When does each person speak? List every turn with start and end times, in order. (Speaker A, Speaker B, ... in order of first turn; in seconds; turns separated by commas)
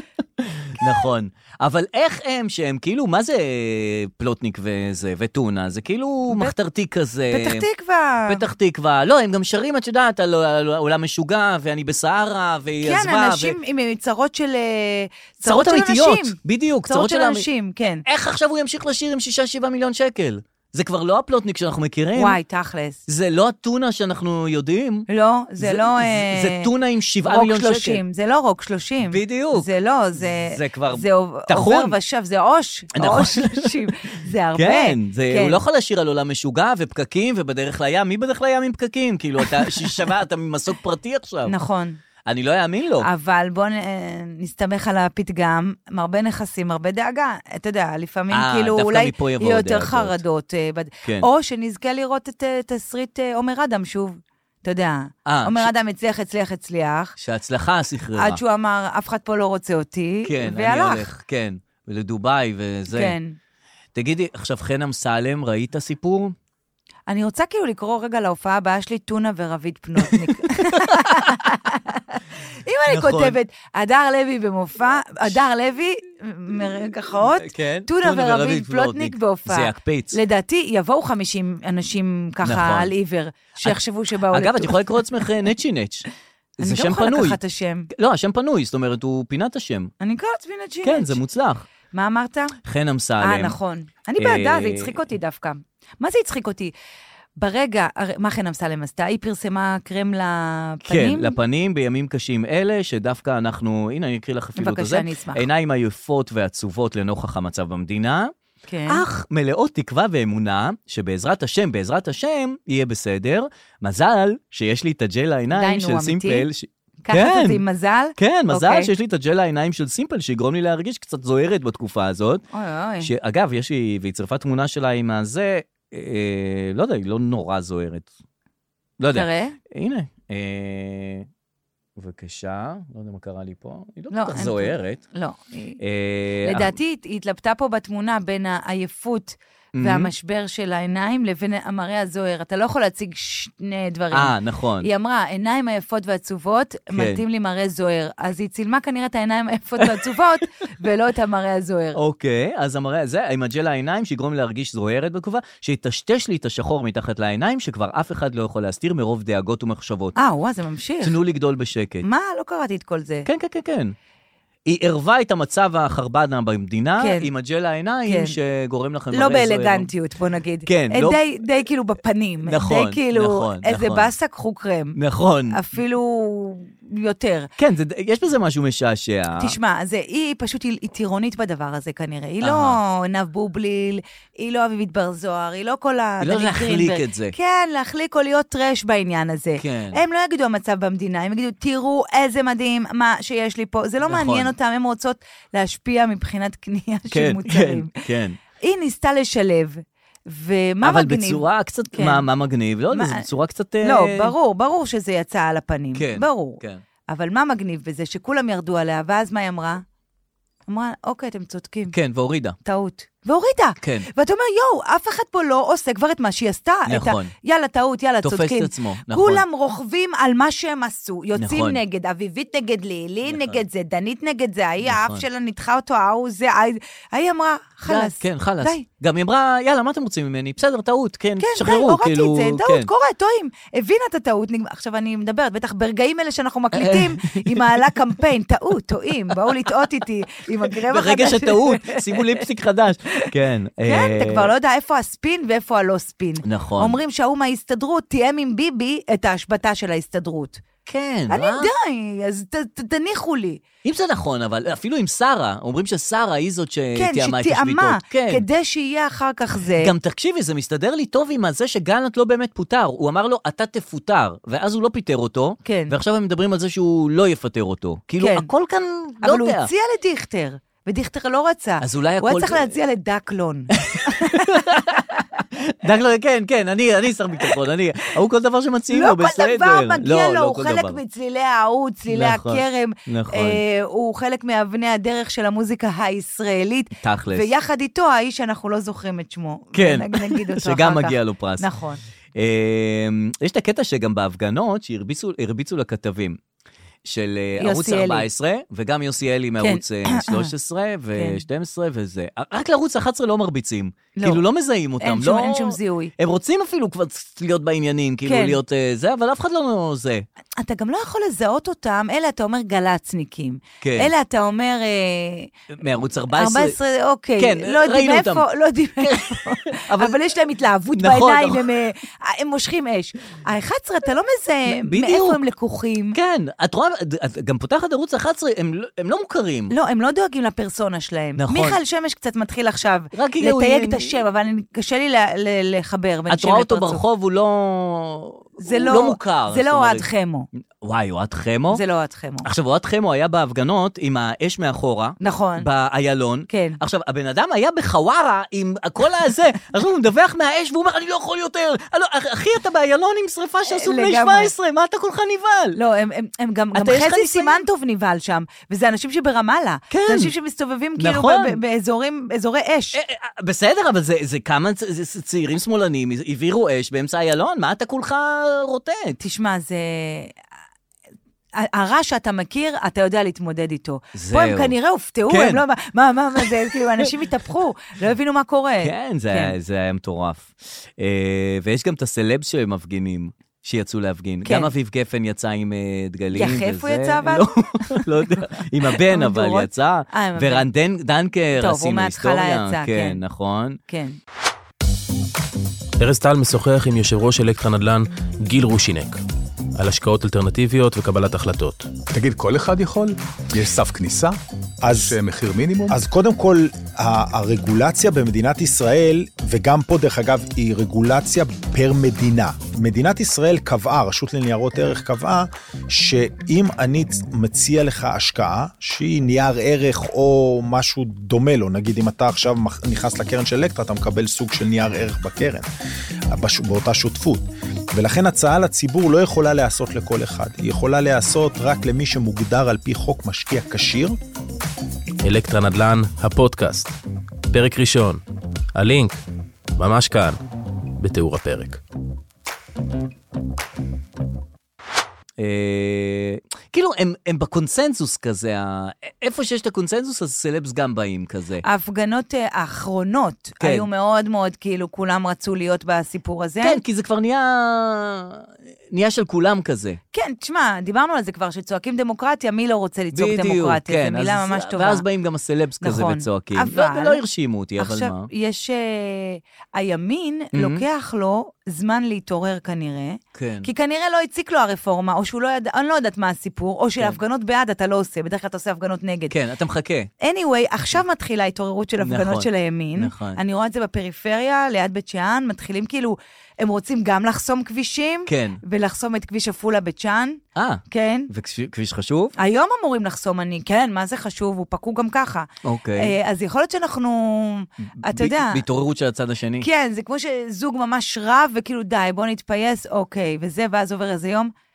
Speaker A: 0.4-7.7, Speaker B: 7.3-8.4, Speaker A: 8.3-13.6, Speaker B: 12.8-16.4, Speaker A: 15.4-17.5, Speaker B: 16.9-18.0, Speaker A: 18.1-22.4, Speaker B: 22.2-23.0, Speaker A: 23.1-25.1, Speaker B: 25.1-26.7, Speaker A: 25.6-28.0, Speaker B: 27.2-35.6, Speaker A: 29.1-29.7, Speaker A: 30.4-32.0, Speaker A: 33.0-33.9, Speaker A: 34.6-41.5, Speaker B: 41.5-42.0, Speaker A: 42.3-43.1, Speaker B: 43.0-57.1, Speaker A: 48.3-50.2, Speaker A: 55.3-55.7, Speaker A: 57.2-58.4, Speaker B: 58.2-61.1, Speaker A: 60.2-63.2, Speaker B: 62.9-63.4, Speaker A: 64.0-66.3, Speaker B: 67.1-85.0, Speaker A: 70.1-71.3, Speaker A: 72.9-73.4, Speaker A: 77.4-80.2, Speaker A: 82.4-82.9, Speaker A: 84.3-86.0, Speaker A: 86.6-87.4, Speaker B: 86.6-87.9, Speaker A: 87.9-89.9, Speaker B: 90.0-91.2, Speaker A: 90.8-91.7, Speaker B: 91.9-92.6, Speaker A: 92.7-93.6, Speaker B: 93.2-96.7, Speaker A: 94.2-95.0, Speaker B: 97.4-101.3, Speaker A: 100.9-108.3, Speaker B: 104.6-105.5, Speaker B: 108.7-109.0, Speaker A: 108.9-117.6, Speaker B: 115.5-116.5, Speaker B: 117.0-118.9, Speaker A: 118.2-122.4, Speaker B: 122.5-123.1, Speaker A: 123.0-128.1, Speaker A: 129.0-131.3, Speaker B: 129.1-129.6, Speaker A: 132.0-135.0, Speaker B: 134.1-135.8, Speaker A: 135.8-136.8, Speaker B: 136.4-152.0, Speaker A: 139.8-140.1, Speaker A: 144.1-144.9, Speaker A: 146.9-147.2, Speaker A: 151.9-160.2, Speaker B: 160.2-161.2, Speaker A: 161.0-162.1, Speaker B: 162.0-163.3, Speaker A: 163.3-163.9, Speaker A: 164.7-169.9, Speaker B: 167.0-167.3, Speaker B: 168.1-168.4, Speaker B: 169.1-175.0, Speaker A: 170.7-171.2, Speaker A: 172.4-174.1, Speaker A: 175.0-175.6, Speaker B: 175.5-177.5, Speaker A: 177.6-179.6, Speaker B: 179.4-197.9, Speaker A: 182.4-182.8, Speaker A: 186.2-187.3, Speaker A: 189.6-190.0, Speaker A: 194.1-194.5, Speaker A: 197.1-198.4, Speaker B: 198.6-202.2, Speaker A: 200.8-204.3, Speaker B: 202.9-203.3, Speaker B: 203.8-209.8, Speaker A: 205.9-206.8, Speaker B: 210.7-211.9, Speaker A: 211.9-212.6, Speaker B: 212.7-228.8, Speaker A: 213.8-214.1, Speaker A: 216.9-217.3, Speaker A: 218.2-219.4, Speaker A: 221.4-221.8, Speaker A: 223.3-223.6, Speaker A: 224.8-225.2, Speaker A: 227.9-232.9, Speaker B: 231.4-242.2, Speaker A: 236.7-237.9, Speaker A: 240.9-244.5, Speaker B: 243.8-250.6, Speaker A: 246.4-247.0, Speaker A: 250.9-251.7, Speaker B: 251.3-253.6, Speaker A: 253.8-258.4, Speaker B: 257.0-259.9, Speaker A: 259.8-269.7, Speaker B: 265.6-265.9, Speaker B: 268.2-268.5, Speaker B: 269.2-274.6, Speaker A: 271.8-272.7, Speaker A: 273.7-281.0, Speaker B: 278.9-292.0, Speaker A: 282.1-283.6, Speaker A: 287.0-287.5, Speaker A: 289.8-291.7, Speaker A: 292.4-296.4, Speaker A: 297.1-310.3, Speaker B: 297.6-298.3, Speaker B: 299.6-300.5, Speaker B: 301.2-301.4, Speaker B: 304.2-304.4, Speaker B: 305.0-306.1, Speaker B: 308.3-308.6, Speaker B: 310.6-315.5, Speaker A: 313.8-314.1, Speaker A: 315.7-316.8, Speaker B: 316.3-326.2, Speaker A: 317.4-320.2, Speaker A: 321.0-321.7, Speaker A: 324.7-325.4, Speaker A: 326.1-329.7, Speaker B: 329.7-337.0, Speaker A: 331.4-331.8, Speaker A: 333.1-334.2, Speaker A: 336.3-340.1, Speaker B: 338.6-340.5, Speaker A: 340.8-341.8, Speaker B: 341.7-342.5, Speaker A: 342.4-355.8, Speaker B: 345.2-345.7, Speaker B: 346.5-346.8, Speaker B: 353.7-354.5, Speaker B: 355.8-363.0, Speaker A: 356.8-357.6, Speaker A: 359.9-360.3, Speaker A: 361.0-361.6, Speaker A: 362.9-369.2, Speaker B: 369.2-370.3, Speaker B: 371.6-379.5, Speaker A: 374.1-374.8, Speaker A: 375.3-375.6, Speaker A: 378.8-393.8, Speaker B: 384.4-384.7, Speaker B: 386.3-390.7, Speaker B: 391.6-393.2, Speaker B: 393.9-394.2, Speaker C: 396.0-399.2, Speaker C: 399.8-401.9, Speaker D: 402.1-404.4, Speaker E: 404.8-405.2, Speaker D: 404.9-406.0, Speaker E: 405.9-425.7, Speaker E: 426.3-434.2, Speaker C: 435.2-436.9, Speaker C: 437.5-438.2, Speaker C: 438.8-439.2, Speaker C: 439.8-440.4, Speaker C: 441.0-441.8, Speaker A: 445.4-451.6, Speaker B: 451.6-456.8, Speaker A: 453.6-453.9, Speaker A: 456.6-460.0, Speaker B: 460.1-465.0, Speaker A: 463.1-468.3, Speaker B: 465.8-467.2, Speaker B: 467.8-479.3, Speaker A: 470.5-470.9, Speaker A: 473.3-473.7, Speaker A: 479.3-480.1, Speaker B: 480.2-491.3, Speaker A: 482.0-483.4, Speaker A: 488.3-488.6, Speaker A: 490.6-492.4, Speaker B: 492.4-498.6, Speaker A: 495.6-496.1, Speaker A: 497.9-499.7, Speaker B: 499.6-504.5